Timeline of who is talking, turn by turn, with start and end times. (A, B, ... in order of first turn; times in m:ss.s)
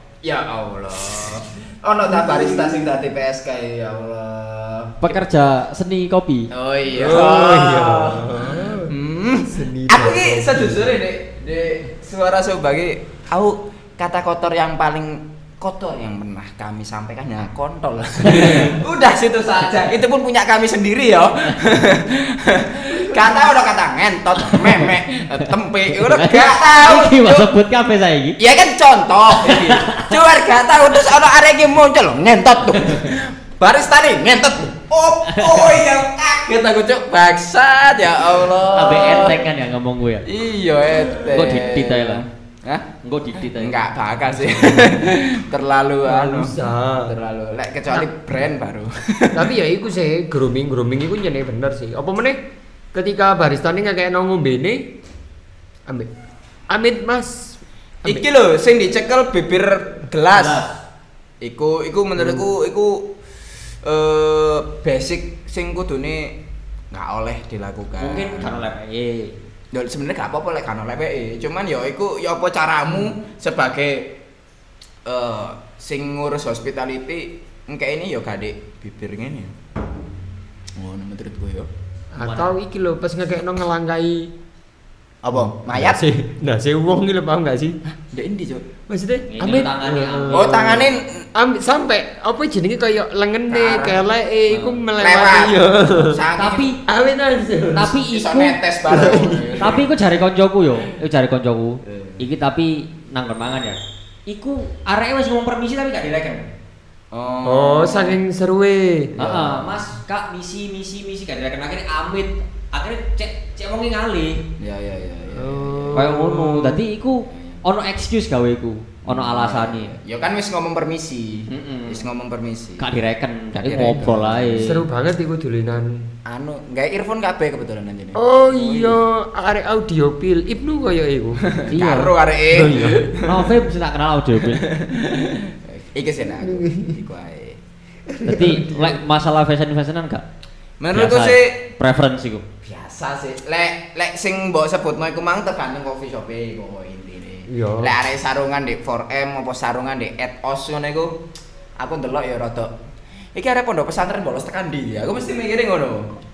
0:00.2-0:05.2 A
0:02.3-0:02.6 B
0:05.0-0:06.5 C
0:06.5-0:27.6 A
0:06.9-0:10.9 B
0:18.2-0:18.7 C
0:24.4-0:28.4 C
0:28.4-0:39.5 A
0:29.3-0:30.2 C
0:32.8-0:33.2 C
0:35.3-0:35.8 C
0:38.7-0:40.2 C
0:40.2-0:42.9 A
0:41.3-0:42.2 C
0:43.0-0:43.8 C
0:43.4-0:49.5 A
0:46.0-0:47.1 B
0:49.3-0:52.4 B
0:52.9-0:54.9 B
0:56.7-0:58.3 B
0:58.0-1:00.6 A
1:00.3-1:00.8 C
1:01.4-1:03.1 A
1:03.8-1:06.4 A
1:06.9-1:08.6 A
1:08.0-1:09.4 C
1:09.7-1:14.2 A
1:15.1-1:19.5 A
1:20.8-1:21.7 A
1:22.1-1:24.3 B
1:22.2-1:22.5 C
1:25.2-1:26.0 A
1:25.3-1:27.8 B
1:27.9-1:28.7 A
1:28.9-1:36.2 B
1:29.3-1:30.7 C
1:30.3-1:31.2 A
1:33.5-1:34.1 A
1:34.5-1:34.8 C
1:35.0-1:36.7 A
1:36.4-1:36.8 C
1:36.9-1:38.0 B
1:37.7-1:46.5 C
1:38.0-1:39.8 A
1:38.9-1:39.7 B
1:41.8-1:42.2 A
1:47.1-1:48.2 A
1:47.4-1:49.1 B
1:49.2-1:49.8 A
1:49.2-1:54.4 C
1:54.6-1:56.1 A
1:55.3-1:56.8 B
1:56.0-1:59.9 C
1:57.3-1:57.6 A
1:59.1-2:02.8 A
2:01.5-2:02.0 C
2:02.8-2:04.8 C
2:03.6-2:04.6 A
2:04.6-2:06.1 B
2:06.3-2:09.0 A
2:08.1-2:11.5 B
2:11.4-2:13.6 A
2:11.7-2:12.1 C
2:12.5-2:13.1 B
2:13.2-2:14.6 C
2:14.4-2:17.6 A
2:16.4-2:17.0 B
2:18.1-2:19.0 B
2:18.2-2:20.2 C
2:20.8-2:21.6 A
2:20.9-2:22.4 C
2:22.6-2:31.2 A
2:27.5-2:28.0 B
2:31.8-2:32.8 A
2:33.4-2:36.1 A